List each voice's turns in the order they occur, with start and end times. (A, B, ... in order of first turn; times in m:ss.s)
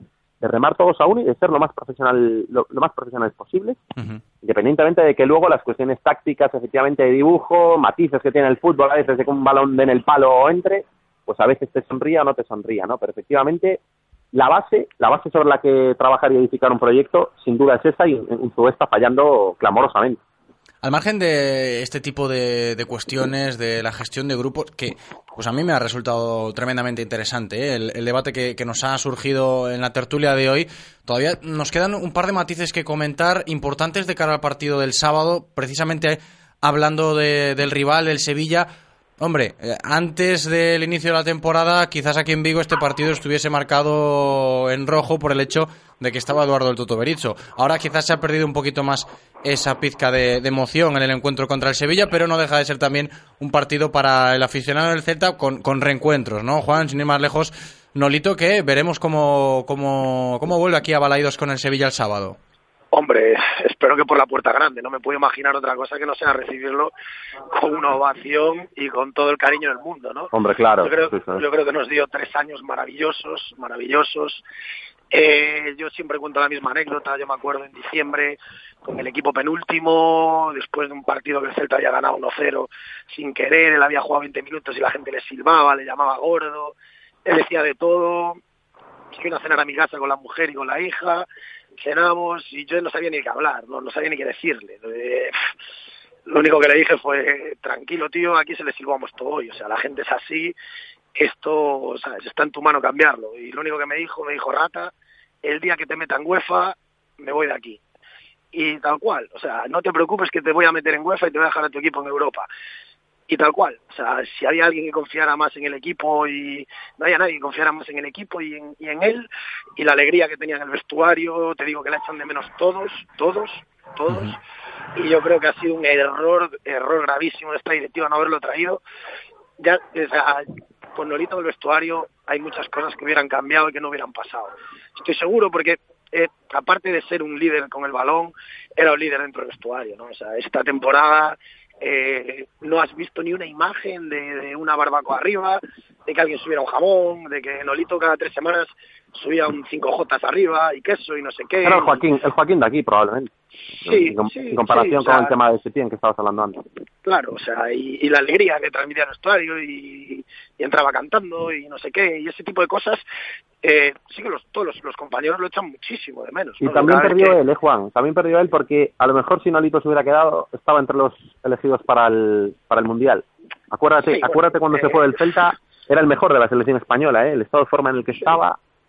0:00.4-0:03.8 A
0:04.4-0:13.8 A
0:14.3-0:20.2 A
0:20.8-1:02.4 B
1:02.9-1:06.9 C
1:07.5-1:14.4 C
1:10.3-1:11.4 A
1:15.1-1:26.7 C
1:27.2-1:28.4 C
1:29.1-1:31.2 C
1:31.8-1:35.3 C
1:36.3-1:40.5 C
1:41.2-1:44.9 C
1:45.4-1:47.8 C
1:48.5-1:52.5 C
1:53.3-1:59.2 C
1:59.8-2:04.4 C
2:05.0-2:08.8 C
2:09.6-2:32.0 C
2:31.6-2:33.3 A
2:33.8-2:35.3 C
2:33.8-2:36.6 A
2:37.0-2:43.0 C
2:43.6-2:47.4 C
2:46.6-2:58.6 A
2:54.1-2:55.3 C